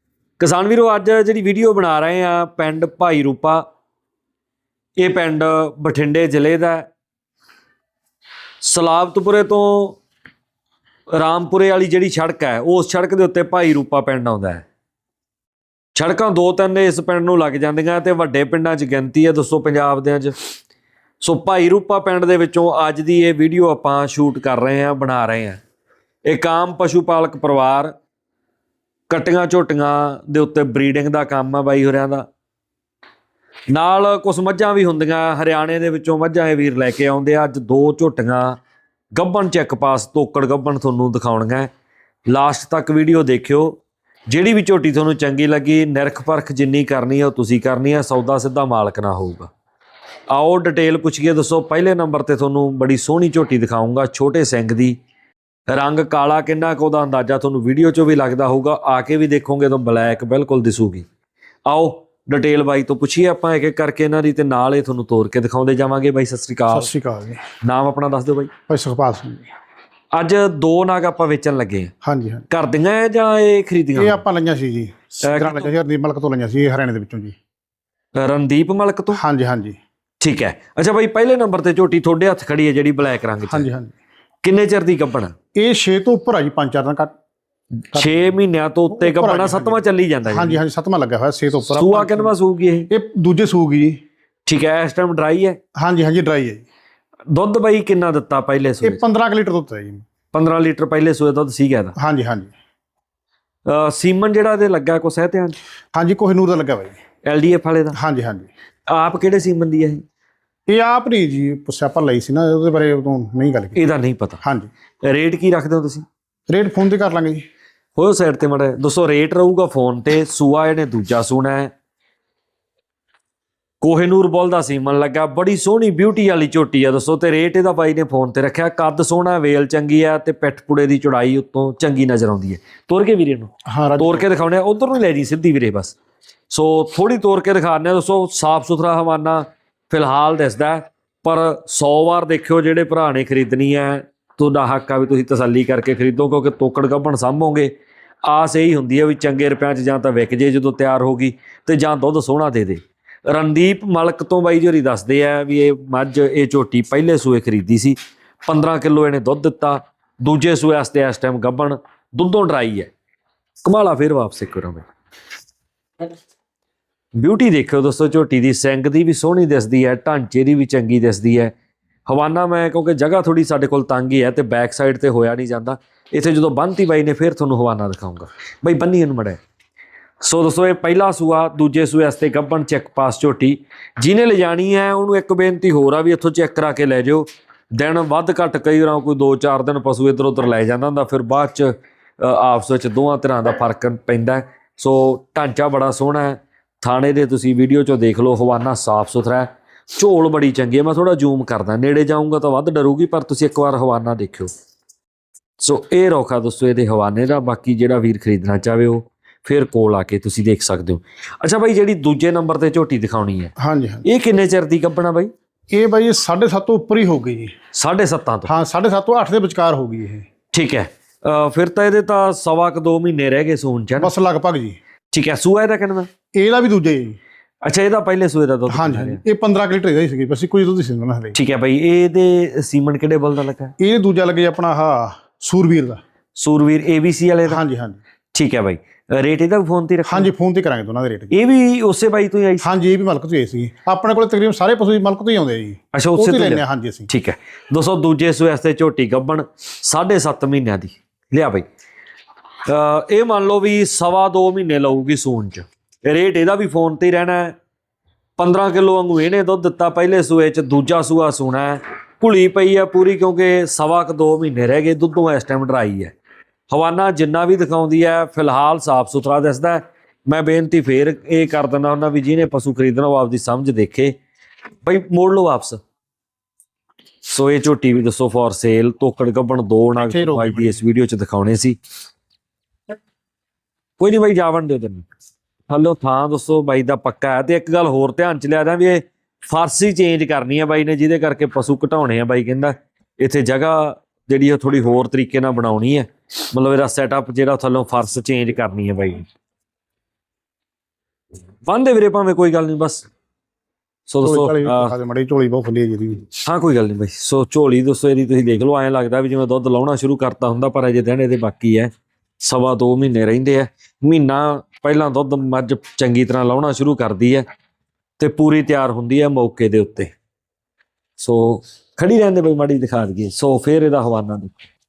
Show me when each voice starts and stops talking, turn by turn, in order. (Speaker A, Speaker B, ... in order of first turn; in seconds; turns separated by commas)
Speaker A: 0.4-3.6, Speaker A: 5.0-6.9, Speaker A: 8.6-10.0, Speaker A: 11.1-14.6, Speaker A: 15.9-20.3, Speaker A: 21.2-25.6, Speaker A: 26.2-27.9, Speaker A: 29.1-32.2, Speaker A: 33.7-38.6, Speaker A: 39.1-41.7, Speaker A: 42.3-49.5, Speaker A: 50.3-55.0, Speaker A: 55.7-61.0, Speaker A: 61.6-66.9, Speaker B: 66.7-67.4, Speaker A: 67.6-68.5, Speaker B: 68.7-69.5, Speaker A: 70.1-71.9, Speaker B: 72.0-72.4, Speaker A: 72.5-74.2, Speaker B: 73.9-77.3, Speaker A: 75.2-75.7, Speaker A: 78.2-79.2, Speaker B: 79.1-79.8, Speaker A: 80.2-83.7, Speaker B: 83.5-84.0, Speaker A: 84.4-85.3, Speaker B: 85.5-87.1, Speaker A: 87.9-90.6, Speaker B: 87.9-88.3, Speaker B: 88.9-92.3, Speaker A: 91.6-92.9, Speaker B: 92.9-94.0, Speaker A: 94.5-95.6, Speaker B: 95.8-96.6, Speaker A: 97.3-99.0, Speaker B: 98.8-100.0, Speaker A: 100.3-101.9, Speaker B: 102.0-102.5, Speaker A: 103.7-105.6, Speaker B: 105.9-106.9, Speaker A: 107.2-108.0, Speaker B: 107.9-108.5, Speaker A: 108.9-110.0, Speaker B: 110.7-113.8, Speaker A: 113.7-114.4, Speaker B: 114.4-114.7, Speaker A: 115.0-116.0, Speaker B: 116.5-117.4, Speaker A: 118.0-121.7, Speaker A: 123.8-135.9, Speaker B: 133.7-134.2, Speaker A: 136.5-147.7, Speaker A: 148.2-162.9, Speaker A: 163.6-164.8, Speaker A: 167.2-171.5, Speaker A: 172.1-179.4, Speaker A: 180.2-204.5, Speaker A: 205.6-213.5, Speaker B: 213.6-214.0, Speaker A: 214.0-215.3, Speaker B: 215.7-217.5, Speaker A: 217.7-218.5, Speaker B: 218.4-220.2, Speaker A: 220.5-224.1, Speaker B: 224.0-224.8, Speaker A: 225.1-226.1, Speaker B: 226.3-227.2, Speaker A: 227.6-229.2, Speaker B: 228.7-231.3, Speaker A: 231.3-233.7, Speaker B: 233.8-236.0, Speaker A: 236.3-237.6, Speaker B: 237.5-238.0, Speaker A: 238.3-240.3, Speaker B: 240.0-241.3, Speaker A: 241.3-242.7, Speaker B: 242.6-247.1, Speaker A: 245.9-251.7, Speaker A: 252.7-257.5, Speaker A: 258.4-266.1, Speaker A: 266.7-274.1, Speaker A: 274.8-275.8, Speaker A: 277.2-281.8, Speaker B: 279.9-280.8, Speaker A: 284.0-285.1, Speaker A: 285.7-299.2, Speaker A: 301.6-303.1, Speaker A: 304.1-304.9, Speaker B: 304.2-306.2, Speaker A: 306.4-317.4, Speaker A: 318.2-320.1, Speaker A: 321.2-324.6